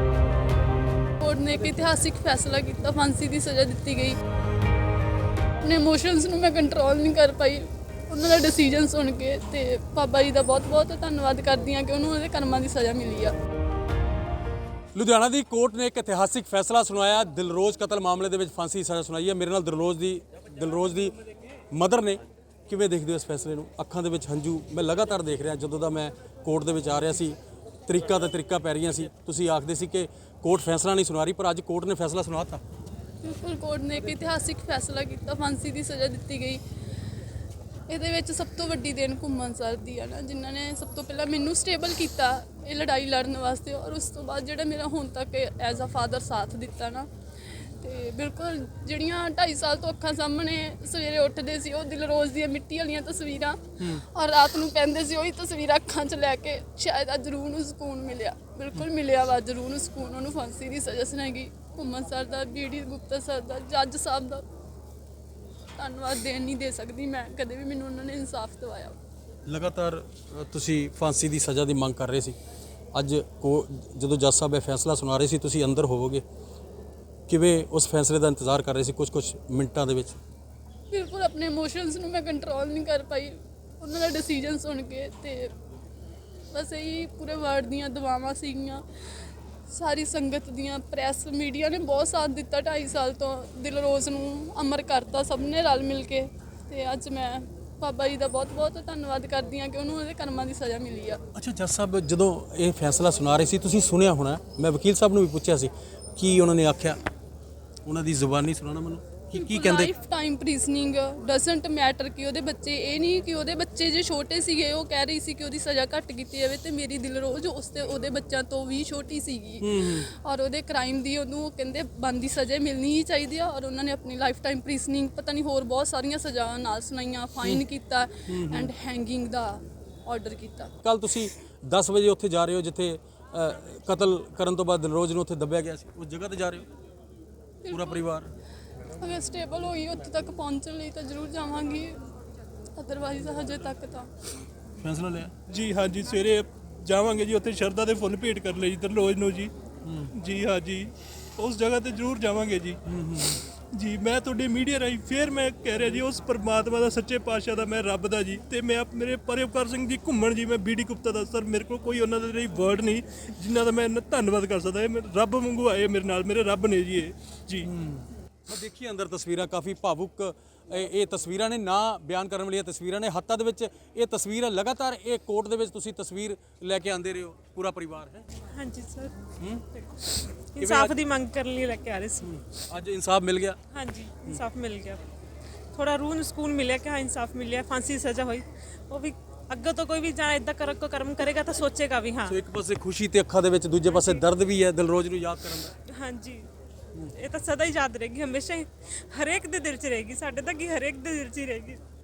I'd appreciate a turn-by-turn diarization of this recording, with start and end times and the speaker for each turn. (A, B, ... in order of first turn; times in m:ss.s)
0:01.2-0:04.2 A
0:05.6-0:13.3 A
0:15.0-0:21.2 B
0:21.7-0:32.6 B
0:33.2-0:36.6 A
0:37.9-1:04.5 A
1:05.8-1:09.0 A
1:09.5-1:12.4 B
1:12.9-1:16.2 B
1:17.3-1:20.2 B
1:20.9-1:25.5 A
1:26.5-1:28.8 A
1:29.7-1:41.2 A
1:41.4-1:47.0 B
1:47.8-1:49.9 B
1:49.4-2:10.7 A
1:59.6-2:00.1 B
2:08.3-2:08.7 B
2:10.8-2:16.7 B
2:17.7-2:18.0 A
2:17.7-2:18.3 B
2:19.0-2:22.0 A
2:22.8-2:24.1 A
2:24.8-2:25.3 B
2:25.5-2:29.5 C
2:29.8-2:30.1 B
2:30.1-2:32.8 C
2:32.9-2:33.4 B
2:33.4-2:47.7 C
2:47.6-2:58.3 B
2:58.5-2:59.2 D
2:59.4-2:59.6 B
2:59.8-3:02.3 D
3:00.6-3:01.0 B
3:02.2-3:03.6 B
3:03.7-3:05.0 D
3:05.7-3:12.4 D
3:12.3-3:15.7 B
3:13.9-3:14.2 D
3:15.9-3:16.5 D
3:17.1-3:21.8 D